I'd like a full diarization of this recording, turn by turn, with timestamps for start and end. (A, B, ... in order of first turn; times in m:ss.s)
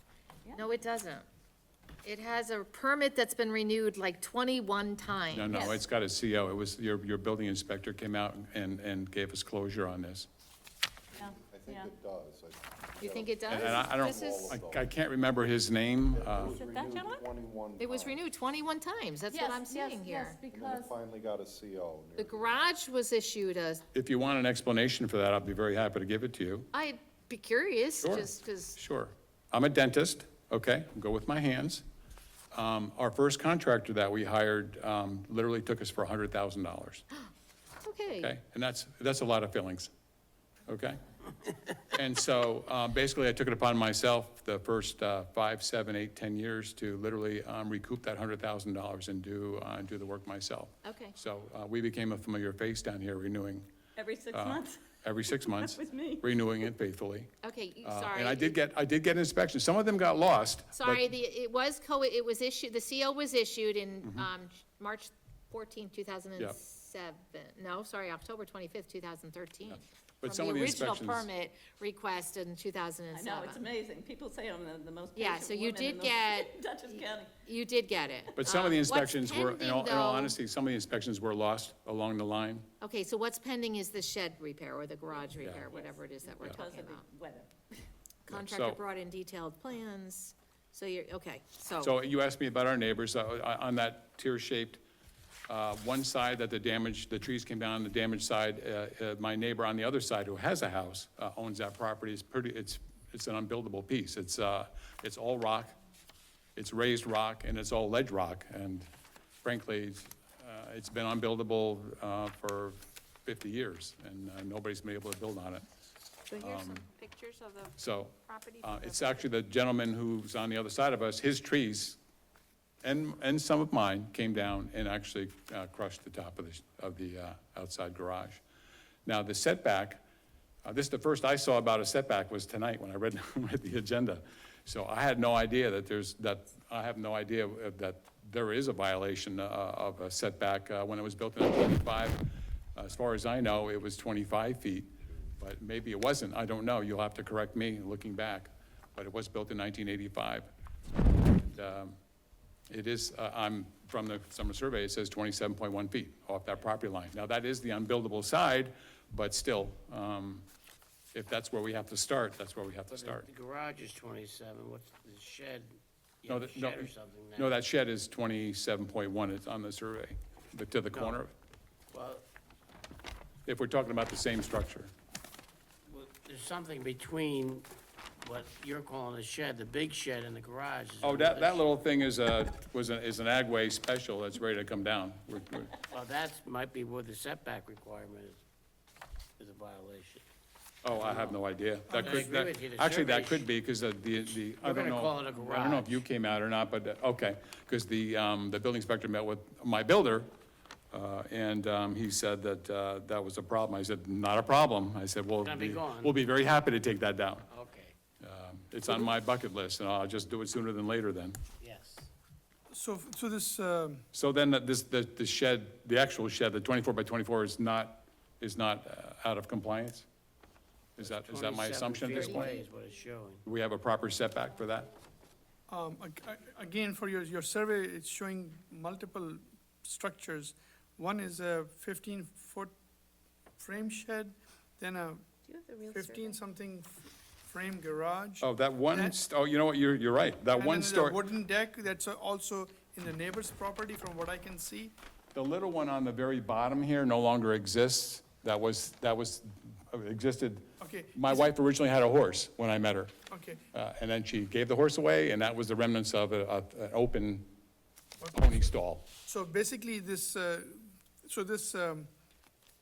0:00.5-0:01.2 A
0:02.0-0:05.8 A
0:05.3-0:10.3 B
0:05.5-0:05.8 C
0:11.2-0:11.9 C
0:11.2-0:14.9 D
0:13.0-0:14.6 A
0:13.5-0:16.6 B
0:16.1-0:18.2 D
0:16.4-0:17.2 C
0:17.8-0:20.4 A
0:19.3-0:20.9 C
0:20.5-0:22.6 D
0:22.2-0:23.8 A
0:23.9-0:26.7 B
0:26.7-0:28.8 A
0:28.0-0:31.8 B
0:32.5-0:37.0 B
0:37.8-0:38.3 A
0:38.1-0:39.9 B
0:40.7-0:41.0 B
0:41.8-0:53.7 B
0:50.8-0:51.2 A
0:54.0-0:54.8 C
0:54.3-0:57.3 B
0:55.4-0:56.2 C
0:57.4-0:58.6 A
0:57.8-1:01.1 B
1:00.7-1:13.6 A
1:09.7-1:11.3 B
1:13.1-1:17.3 C
1:15.2-1:20.4 A
1:18.4-1:22.7 B
1:22.8-1:27.0 A
1:25.1-1:27.9 C
1:25.4-1:25.7 B
1:28.2-1:32.0 A
1:28.3-1:28.8 B
1:31.8-1:34.8 B
1:35.5-1:45.7 B
1:46.6-1:48.9 B
1:49.4-1:55.6 B
1:56.3-1:59.2 A
1:56.4-1:56.8 B
1:57.8-2:02.0 B
2:02.8-2:08.4 B
2:09.0-2:10.0 B
2:10.6-2:22.2 B
2:22.8-2:30.5 B
2:31.3-2:32.0 B
2:32.7-2:40.4 B
2:41.1-2:43.3 B
2:42.9-2:47.6 E
2:46.3-2:51.3 B
2:50.9-2:51.2 E
2:51.9-2:52.2 E
2:53.4-2:54.9 B
2:55.9-2:57.7 E
2:58.2-3:01.8 E
3:01.0-3:05.8 B
3:05.9-3:08.4 E
3:09.4-3:10.2 E
3:10.8-3:20.3 B
3:10.9-3:11.4 E
3:11.9-3:12.2 F
3:12.0-3:13.5 E
3:14.6-3:16.0 E
3:20.9-3:27.5 B
3:25.4-3:26.2 E
3:27.5-3:27.9 E
3:28.2-3:31.4 B
3:31.6-3:32.1 E
3:32.7-3:34.0 F
3:34.1-3:40.0 B
3:41.0-3:42.6 B
3:41.0-3:43.4 E
3:43.4-3:44.9 B
3:45.7-3:52.7 F
3:53.6-3:59.2 F
3:55.6-3:56.3 A
3:58.4-4:01.2 B
4:00.5-4:04.9 F
4:05.3-4:13.1 B
4:10.8-4:11.5 F
4:13.3-4:13.6 F
4:13.7-4:17.5 B
4:18.2-4:18.6 F
4:18.3-4:19.1 B
4:19.2-4:22.1 F